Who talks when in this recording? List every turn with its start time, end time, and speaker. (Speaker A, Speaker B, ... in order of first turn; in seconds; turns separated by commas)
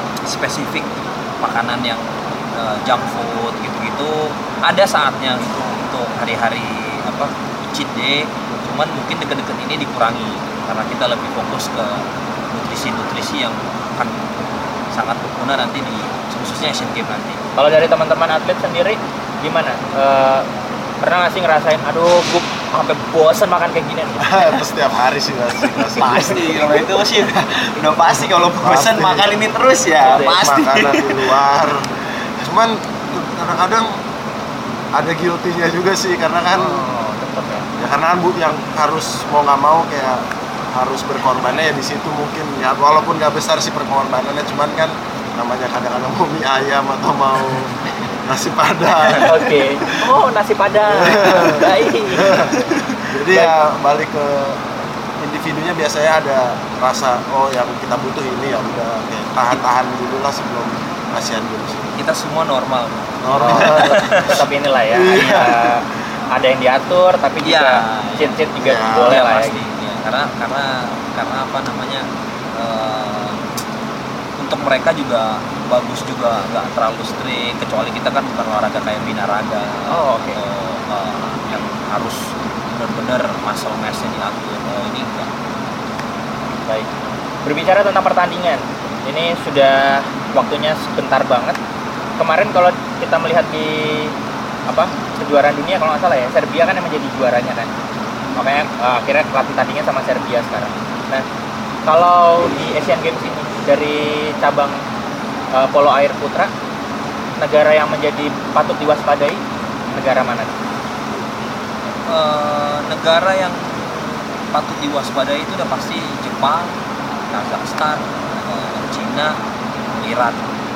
Speaker A: 0.3-17.4, Speaker B: 17.6-20.4, Speaker B: 21.0-24.5, Speaker C: 24.2-26.4, Speaker D: 26.0-31.4, Speaker C: 28.6-29.3, Speaker B: 30.0-30.4, Speaker C: 30.4-31.8, Speaker C: 32.4-33.9, Speaker C: 34.9-36.9, Speaker B: 36.5-37.6, Speaker C: 37.8-50.0, Speaker B: 49.2-52.6, Speaker C: 50.9-51.6, Speaker C: 52.2-54.7, Speaker C: 55.2-61.9, Speaker A: 62.0-64.4, Speaker C: 63.2-64.3, Speaker B: 63.3-69.6, Speaker C: 64.9-65.6, Speaker A: 67.4-73.4, Speaker C: 68.6-69.2, Speaker A: 74.4-85.3, Speaker B: 79.9-80.4, Speaker B: 87.4-91.6, Speaker B: 92.2-94.1, Speaker B: 94.7-97.7, Speaker B: 98.3-101.2, Speaker B: 101.8-104.8, Speaker B: 105.5-106.5, Speaker B: 107.4-110.5, Speaker A: 112.0-116.7, Speaker A: 117.3-119.4, Speaker A: 120.0-120.4